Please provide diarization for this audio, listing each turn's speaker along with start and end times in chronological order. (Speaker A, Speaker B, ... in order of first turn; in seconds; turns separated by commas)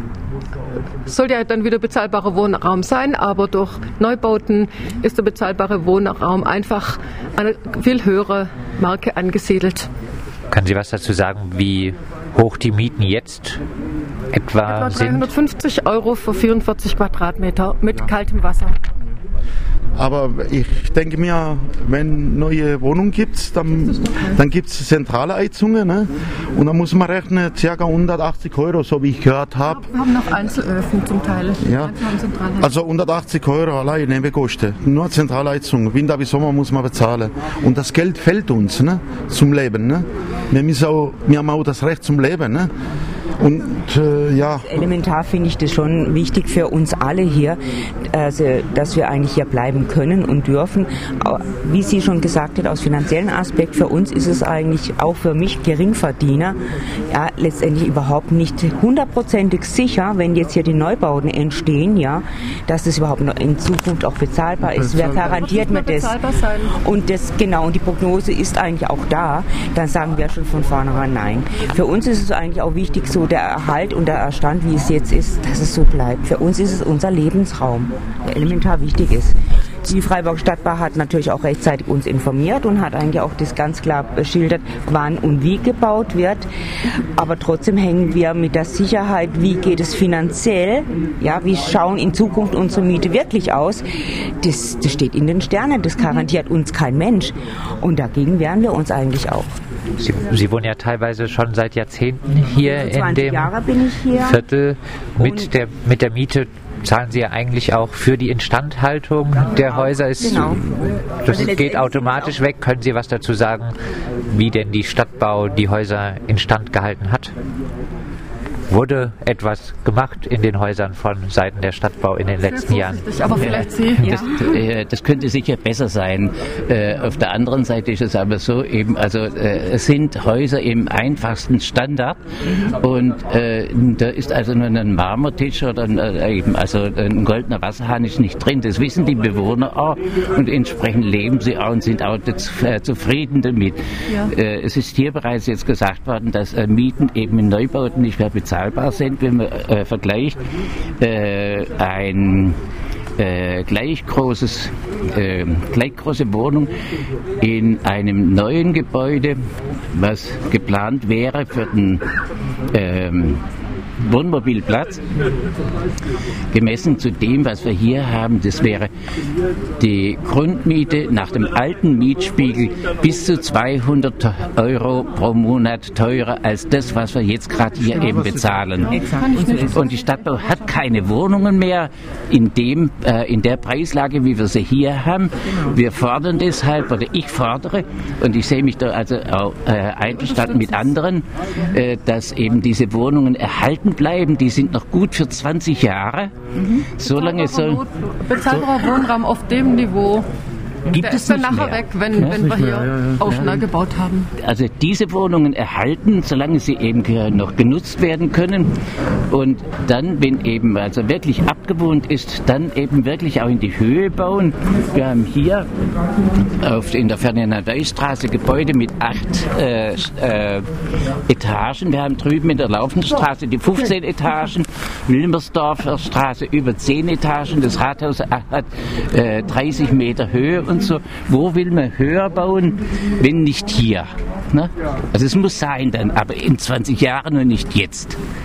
Speaker A: 1.1-9.9, Speaker B: 10.5-13.6, Speaker B: 14.3-15.3, Speaker A: 14.7-18.8, Speaker C: 20.0-29.9, Speaker A: 23.8-24.5, Speaker A: 29.7-32.8, Speaker C: 31.6-42.7, Speaker C: 43.4-44.7, Speaker D: 44.4-56.6, Speaker D: 57.1-86.5, Speaker A: 65.0-66.7, Speaker D: 87.1-99.5, Speaker B: 100.0-103.5, Speaker D: 102.6-104.4, Speaker B: 104.1-113.7, Speaker D: 105.2-105.5, Speaker D: 109.6-110.6, Speaker D: 111.2-112.4, Speaker B: 114.3-117.3, Speaker B: 118.7-124.2, Speaker A: 122.4-124.2, Speaker E: 123.4-150.4, Speaker E: 151.0-152.6, Speaker E: 153.2-156.7, Speaker E: 157.4-159.4, Speaker E: 159.9-162.0, Speaker E: 162.7-163.4, Speaker E: 164.0-165.0, Speaker E: 166.5-168.9, Speaker E: 169.8-179.0, Speaker A: 178.9-180.2, Speaker D: 179.2-179.5, Speaker E: 179.6-197.8, Speaker A: 190.2-190.8, Speaker A: 197.0-200.3, Speaker A: 200.9-204.3, Speaker E: 200.9-202.5, Speaker C: 202.3-203.4, Speaker E: 203.2-203.5, Speaker E: 204.4-208.7, Speaker E: 209.3-215.7, Speaker E: 216.6-220.7, Speaker E: 221.3-238.2